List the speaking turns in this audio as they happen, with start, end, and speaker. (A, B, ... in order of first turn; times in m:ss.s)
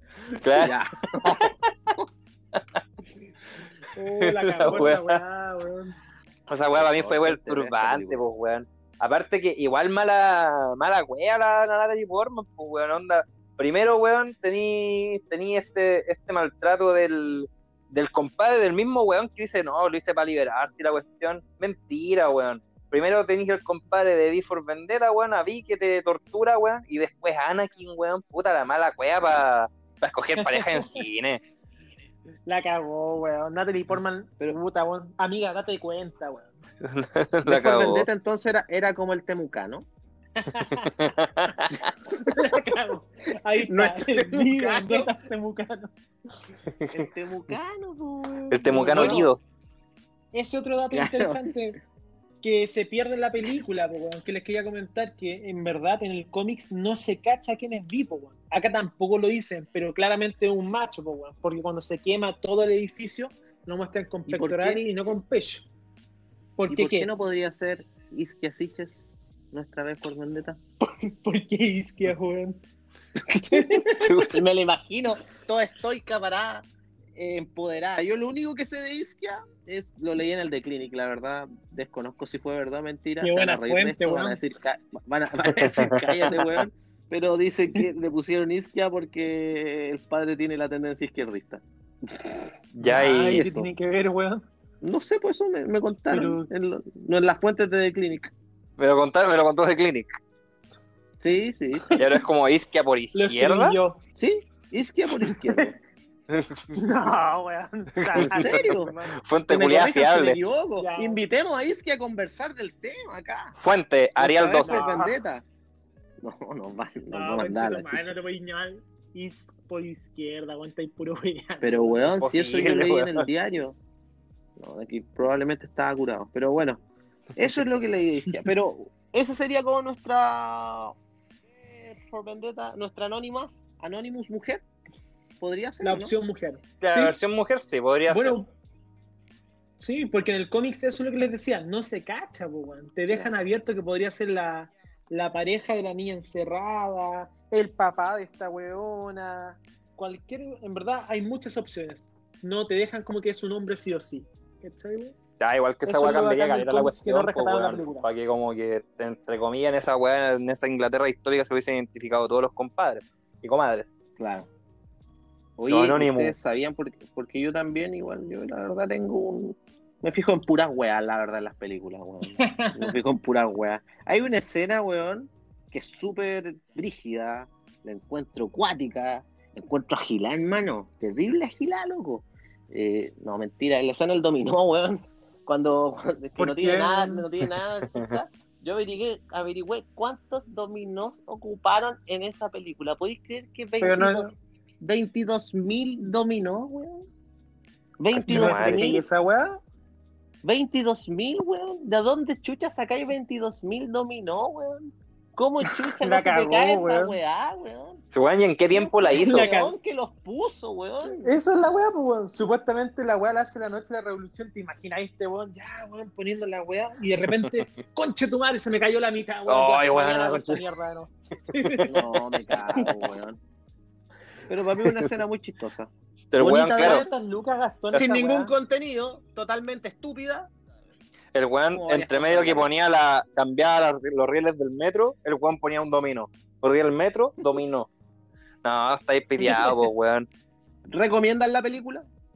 0:00.3-0:01.5 A
0:00.6-0:01.4 B
0:03.9-0:05.9 C
0:04.2-0:05.2 A
0:06.5-0:31.4 A
0:06.7-0:08.2 B
0:30.4-0:31.0 C
0:32.4-0:36.5 C
0:36.8-0:38.1 A
0:37.4-0:39.8 B
0:40.4-0:41.0 C
0:40.7-0:41.6 A
0:42.1-0:45.9 C
0:43.6-0:45.1 B
0:46.9-0:49.3 B
0:48.5-0:49.4 A
0:48.7-0:49.3 C
0:50.3-0:51.8 C
0:50.9-0:51.5 B
0:52.4-1:05.6 C
1:04.3-1:04.8 B
1:06.6-1:07.1 C
1:06.7-1:10.6 B
1:10.8-1:12.6 C
1:13.3-1:14.2 C
1:14.0-1:14.4 A
1:14.3-1:32.4 B
1:23.2-1:24.4 C
1:25.6-1:26.6 A
1:32.7-1:33.5 A
1:32.8-1:34.4 C
1:33.0-1:33.7 B
1:34.8-1:38.3 B
1:36.1-1:36.5 C
1:38.8-1:40.2 A
1:41.2-1:42.0 B
1:41.8-1:42.2 C
1:42.0-1:43.8 A
1:43.1-1:44.0 C
1:44.2-1:45.8 B
1:45.2-1:45.7 C
1:46.3-1:46.7 A
1:46.7-1:49.1 C
1:48.0-1:50.4 A
1:48.2-1:48.9 B
1:49.5-1:53.6 B
1:50.8-1:51.2 C
1:53.6-1:54.8 A
1:54.2-1:55.4 B
1:54.6-1:55.2 C
1:56.2-1:58.1 B
1:57.1-2:02.1 C
2:01.6-2:03.8 B
2:02.2-2:03.3 A
2:04.6-2:06.8 B
2:07.4-2:10.9 B
2:11.6-2:14.6 B
2:15.4-2:16.1 B
2:15.8-2:17.2 C
2:16.8-2:18.4 A
2:18.1-2:18.5 C
2:19.8-2:35.2 C
2:35.4-2:43.9 A
2:35.8-2:38.1 C
2:44.2-2:44.5 B
2:45.6-3:14.3 B
2:45.7-2:46.3 A
2:52.3-2:53.0 C
3:06.4-3:07.2 C
3:07.9-3:08.2 A
3:13.8-3:14.3 C
3:14.8-3:17.1 B
3:18.0-3:19.0 B
3:18.1-3:18.8 A
3:18.3-3:19.6 C
3:20.4-3:28.0 B
3:25.7-3:27.2 C
3:28.1-3:29.5 A
3:28.7-3:31.4 B
3:29.1-3:29.7 C
3:31.0-3:42.1 C
3:39.5-3:40.6 A
3:41.8-3:43.4 B
3:44.5-3:47.1 B
3:44.8-3:45.1 A
3:46.3-3:47.0 A
3:46.7-3:48.5 C
3:47.9-3:50.5 B
3:51.3-3:57.9 A
3:51.7-3:52.7 B
3:58.6-4:00.3 A
4:00.9-4:02.1 B